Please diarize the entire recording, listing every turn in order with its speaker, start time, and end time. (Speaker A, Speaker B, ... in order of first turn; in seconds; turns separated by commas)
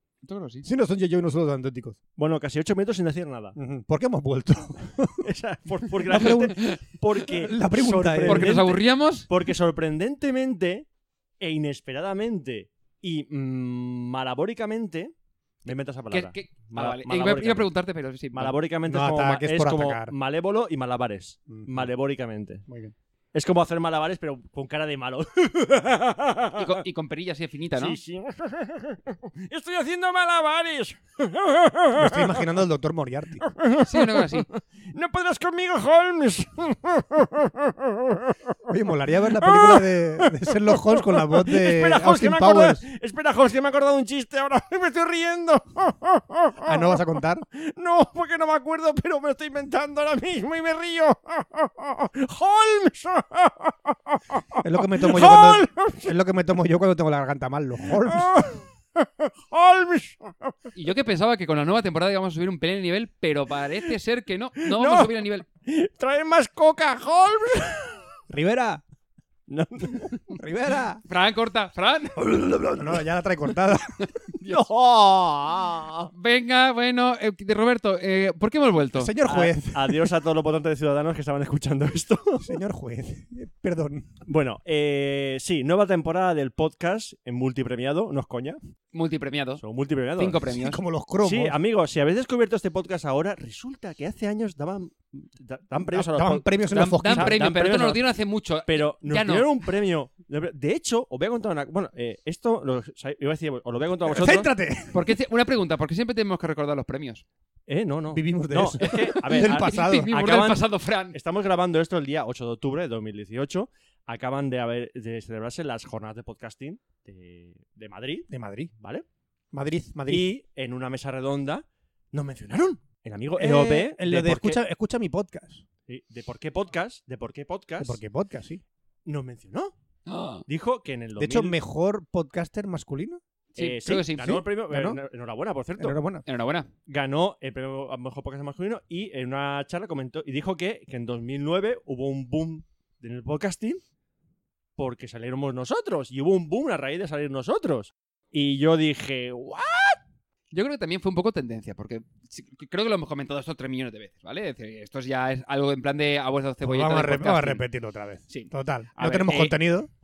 Speaker A: 0.2-0.7, Speaker B: 0.6-2.0, Speaker C: 2.2-3.6, Speaker B: 3.5-5.2, Speaker C: 5.2-10.8, Speaker B: 6.1-6.5, Speaker A: 6.1-6.8, Speaker B: 7.4-8.6, Speaker A: 8.3-9.3, Speaker C: 11.4-15.1, Speaker C: 15.6-17.7, Speaker A: 16.1-18.5, Speaker C: 18.3-22.6, Speaker B: 18.9-20.1, Speaker B: 21.5-21.9, Speaker B: 22.7-22.9, Speaker C: 23.3-26.8, Speaker A: 26.6-28.0, Speaker C: 27.8-32.6, Speaker B: 31.9-33.4, Speaker C: 33.4-38.5, Speaker A: 33.8-34.5, Speaker B: 38.7-42.8, Speaker C: 39.3-56.1, Speaker B: 46.6-47.4, Speaker B: 54.6-58.3, Speaker C: 58.0-60.5, Speaker A: 60.7-65.4, Speaker C: 64.6-68.0, Speaker B: 68.3-68.8, Speaker C: 69.5-70.2, Speaker B: 70.4-71.0, Speaker A: 71.0-72.2, Speaker C: 72.2-73.0, Speaker B: 72.8-74.0, Speaker C: 74.4-76.1, Speaker A: 76.1-79.1, Speaker B: 79.0-80.1, Speaker C: 79.2-82.6, Speaker B: 82.4-84.1, Speaker C: 84.2-88.6, Speaker A: 88.9-89.6, Speaker C: 89.6-90.5, Speaker A: 90.2-90.8, Speaker B: 90.5-91.6, Speaker C: 91.2-98.0, Speaker B: 95.8-97.4, Speaker A: 96.7-99.5, Speaker C: 98.7-104.5, Speaker B: 104.0-105.0, Speaker A: 104.9-107.2, Speaker C: 107.7-119.0, Speaker B: 108.1-110.1, Speaker A: 108.8-111.2, Speaker B: 118.3-118.7, Speaker B: 119.5-120.3, Speaker C: 120.1-124.6, Speaker B: 123.4-125.6, Speaker C: 125.9-128.0, Speaker B: 127.8-128.6, Speaker C: 129.1-129.7, Speaker A: 130.1-130.4, Speaker C: 130.5-131.6, Speaker B: 131.2-133.2, Speaker A: 133.5-134.4, Speaker C: 133.6-136.0, Speaker B: 134.7-135.0, Speaker B: 135.8-136.2, Speaker A: 136.2-136.7, Speaker C: 136.9-143.8, Speaker C: 144.8-150.0, Speaker A: 150.5-157.6, Speaker B: 156.6-159.9, Speaker A: 158.3-159.6